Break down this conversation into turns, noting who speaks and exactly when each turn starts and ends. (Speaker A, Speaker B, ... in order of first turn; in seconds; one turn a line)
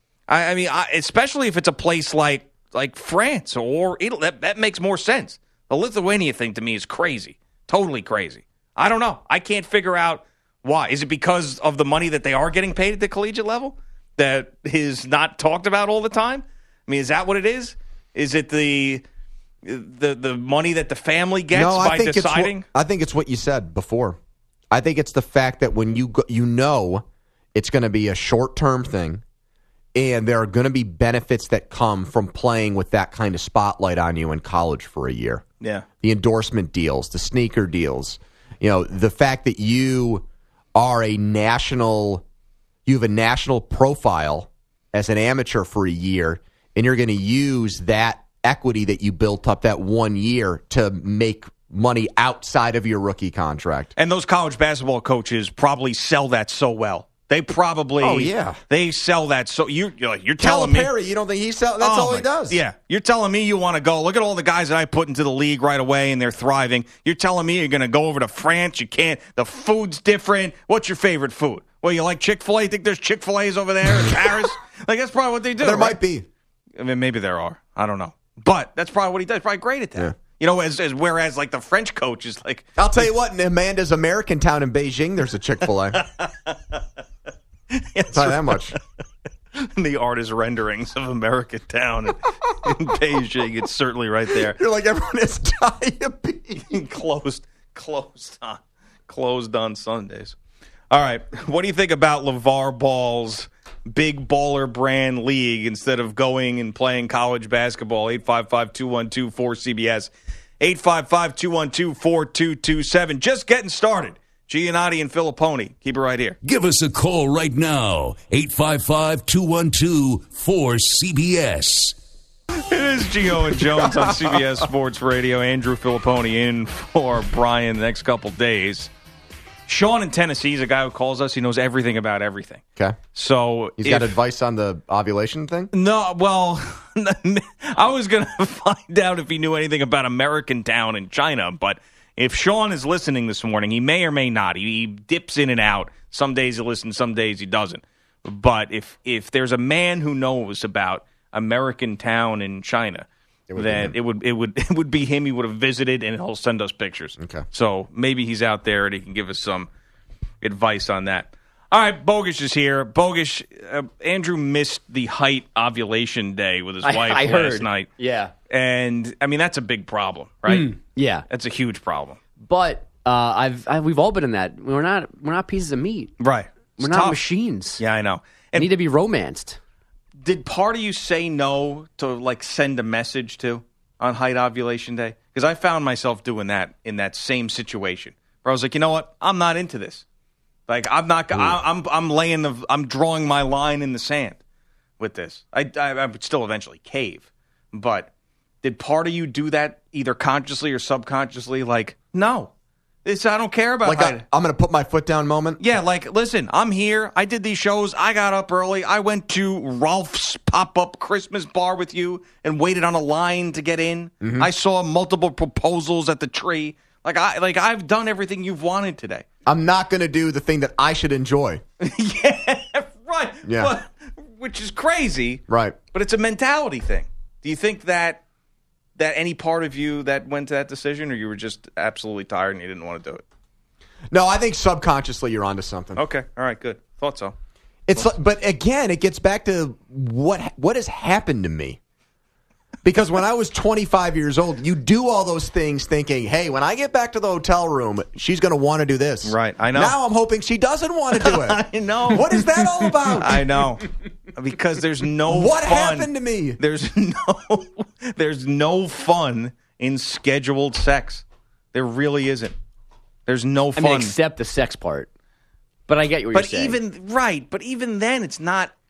Speaker A: 0.3-19.0
Speaker A: 19.6-22.6
Speaker B: 21.5-24.2
Speaker B: 24.7-29.2
Speaker B: 29.9-35.4
Speaker A: 35.6-35.9
Speaker B: 36.0-42.2
Speaker B: 42.9-53.9
Speaker A: 54.0-60.9
Speaker B: 58.0-58.6
Speaker B: 60.4-62.6
Speaker A: 61.8-76.0
Speaker B: 74.0-74.3
Speaker B: 75.6-76.3
Speaker A: 76.8-83.1
Speaker B: 82.8-86.0
Speaker A: 86.0-86.8
Speaker A: 87.7-88.8
Speaker B: 88.1-88.8
Speaker A: 89.5-94.6
Speaker B: 94.3-96.7
Speaker A: 96.7-100.3
Speaker A: 100.9-116.4
Speaker C: 116.4-122.0
Speaker A: 122.7-128.9
Speaker A: 129.7-132.6
Speaker A: 133.1-134.2
Speaker B: 133.8-135.7
Speaker A: 135.7-159.7
Speaker B: 153.5-153.9
Speaker B: 157.2-157.4
Speaker A: 160.4-167.9
Speaker D: 166.8-168.3
Speaker A: 168.5-170.7
Speaker D: 170.5-171.3
Speaker A: 171.3-172.2
Speaker D: 172.4-176.1
Speaker A: 176.2-177.2
Speaker D: 176.8-177.8
Speaker A: 177.8-178.7
Speaker D: 178.6-179.6
Speaker A: 180.2-190.0
Speaker A: 190.7-194.4
Speaker A: 195.0-198.1
Speaker A: 198.6-202.5
Speaker A: 203.1-204.2
Speaker B: 203.8-205.6
Speaker A: 205.6-219.3
Speaker B: 214.2-214.5
Speaker B: 219.5-221.6
Speaker A: 221.8-225.4
Speaker B: 223.4-223.7
Speaker B: 225.5-225.8
Speaker A: 225.9-228.2
Speaker A: 229.0-233.2
Speaker B: 234.1-236.0
Speaker A: 236.0-237.3
Speaker B: 237.9-241.8
Speaker B: 242.8-253.5
Speaker A: 249.2-250.0
Speaker A: 251.2-252.5
Speaker A: 253.2-262.6
Speaker B: 255.3-256.6
Speaker A: 263.3-264.1
Speaker D: 263.8-265.1
Speaker D: 265.9-266.8
Speaker A: 266.3-268.7